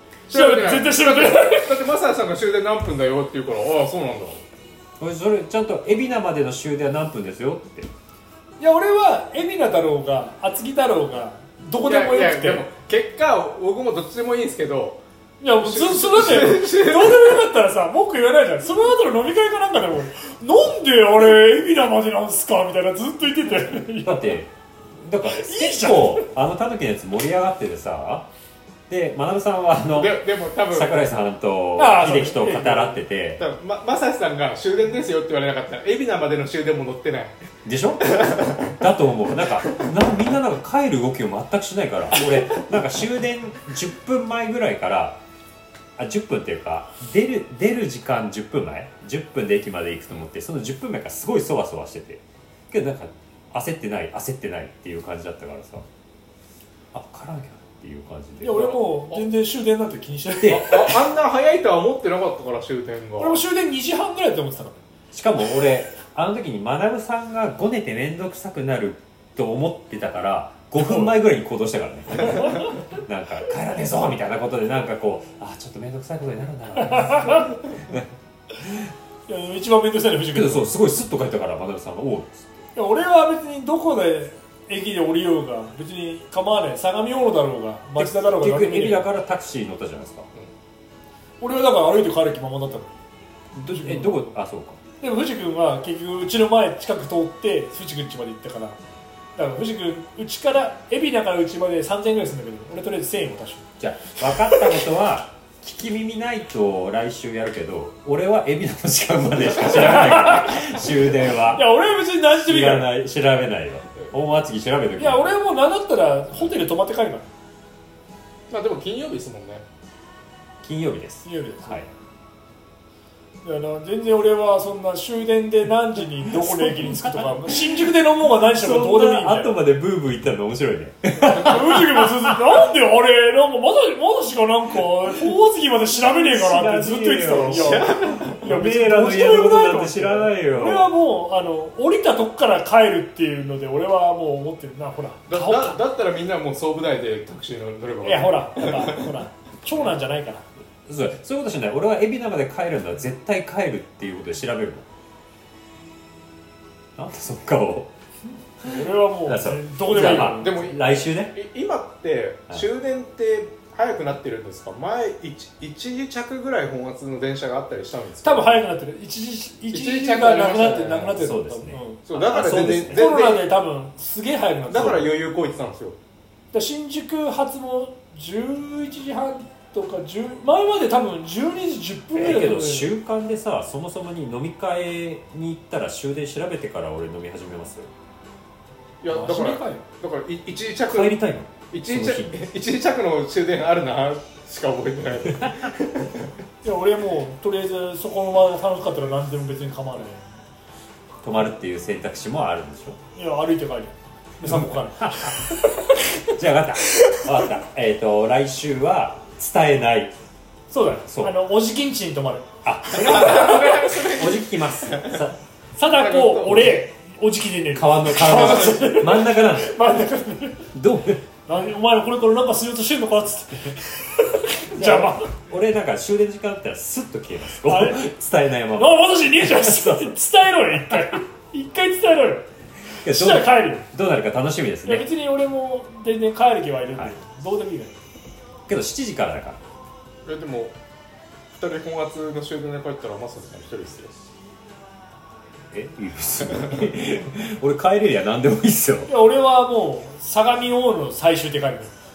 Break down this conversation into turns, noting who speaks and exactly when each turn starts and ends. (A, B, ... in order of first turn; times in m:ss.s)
0:00.3-0:01.8 A
0:00.3-0:04.4 B
0:05.0-0:07.9 C
0:08.6-0:12.6 A
0:11.8-0:15.0 B
0:15.4-0:24.4 A
0:15.6-0:17.4 B
0:24.0-0:28.3 C
0:25.3-0:26.3 A
0:28.9-0:33.4 C
0:29.9-0:31.0 B
0:31.8-0:32.9 A
0:33.4-0:37.3 B
0:37.6-0:45.2 C
0:38.1-0:38.4 B
0:46.0-0:55.8 C
0:56.9-0:58.8 C
0:58.4-1:01.0 A
1:00.4-1:03.4 B
1:03.2-1:04.8 A
1:05.1-1:18.1 C
1:12.2-1:12.8 A
1:16.8-1:17.5 A
1:18.6-1:18.9 C
1:19.3-1:20.7 A
1:20.3-1:22.6 C
1:22.7-1:29.1 A
1:28.0-1:30.3 C
1:31.4-1:32.9 A
1:33.5-1:34.8 C
1:33.7-1:34.3 A
1:35.0-1:38.8 A
1:39.4-1:43.7 A
1:43.8-1:51.7 C
1:44.3-1:44.8 A
1:49.6-1:52.9 A
1:52.3-1:55.4 C
1:55.0-1:57.3 A
1:58.5-1:59.6 B
2:00.6-2:01.9 C
2:01.2-2:01.9 A
2:03.4-2:09.6 A
2:05.9-2:12.5 C
2:11.2-2:25.8 A
2:15.9-2:20.9 C
2:17.4-2:18.4 B
2:25.3-2:29.0 B
2:28.0-2:30.4 A
2:30.8-2:34.8 C
2:37.0-2:37.9 C
2:38.6-2:40.5 A
2:38.6-2:41.4 C
2:39.9-2:48.6 B
2:48.2-2:52.0 A
2:49.7-2:51.2 B
2:51.2-2:53.0 C
2:52.1-2:53.5 B
2:52.8-2:55.1 A
2:54.7-2:56.0 B
2:56.5-3:02.9 A
3:02.1-3:07.9 C
3:09.0-3:11.2 B
3:09.1-3:09.8 A
3:10.9-3:12.4 C
3:11.7-3:16.3 B
3:16.6-3:20.4 A
3:21.2-3:23.0 C
3:23.1-3:26.3 A
3:24.4-3:25.4 C
3:26.3-3:30.1 C
3:26.9-3:27.2 A
3:30.7-3:32.5 A
3:31.0-3:31.3 C
3:32.6-3:35.4 C
3:32.9-3:35.2 B
3:35.8-3:40.7 A
3:35.8-3:36.8 B
3:37.7-3:39.8 C
3:40.7-3:41.2 C
3:41.5-3:45.3 A
3:44.7-3:50.2 C
3:47.6-3:48.1 A
3:48.7-3:53.9 A
3:53.0-3:55.1 C
3:54.8-3:58.0 A
3:58.7-3:59.6 C
4:00.2-4:00.7 B
4:01.5-4:04.2 B
4:05.7-4:09.1 C
4:09.1-4:11.9 A